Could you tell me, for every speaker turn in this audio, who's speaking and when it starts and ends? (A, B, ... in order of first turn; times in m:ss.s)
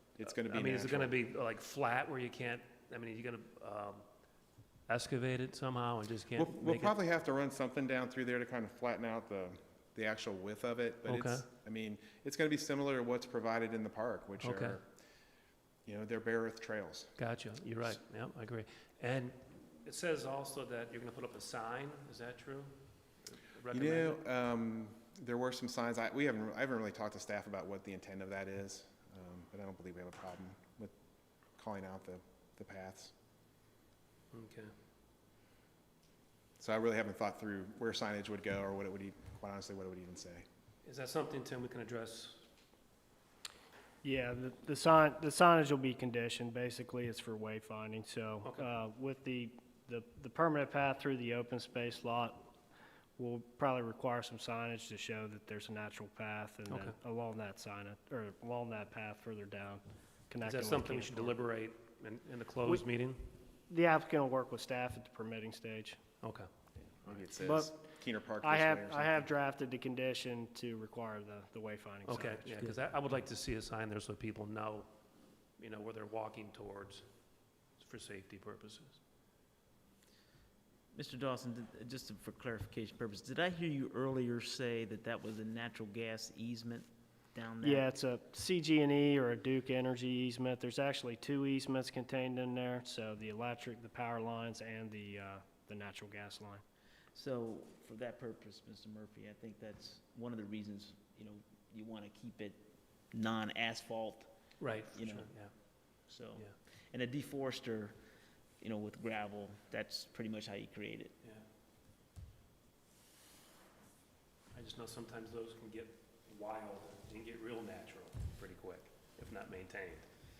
0:00.2-0:01.2 A
0:00.2-0:04.0 B
0:04.9-0:06.9 B
0:06.3-0:14.8 A
0:11.1-0:11.5 B
0:14.4-0:14.8 B
0:15.8-0:17.1 A
0:17.2-0:24.2 B
0:23.7-0:30.9 A
0:31.6-0:33.1 A
0:34.3-0:34.7 B
0:36.6-0:40.4 A
0:40.8-0:42.4 B
0:44.0-0:52.5 C
0:48.4-0:48.7 B
0:53.2-1:01.4 C
0:56.7-0:57.0 B
1:00.4-1:03.3 B
1:03.7-1:06.0 C
1:06.2-1:06.5 B
1:07.0-1:09.3 A
1:07.4-1:07.7 C
1:08.4-1:12.6 C
1:12.0-1:14.9 B
1:15.6-1:17.1 B
1:17.7-1:19.0 B
1:20.9-1:27.9 D
1:27.6-1:36.6 C
1:37.1-1:44.3 D
1:44.6-1:45.5 B
1:44.9-1:45.4 D
1:46.0-1:48.0 D
1:48.6-1:51.1 D
1:54.5-2:00.1 B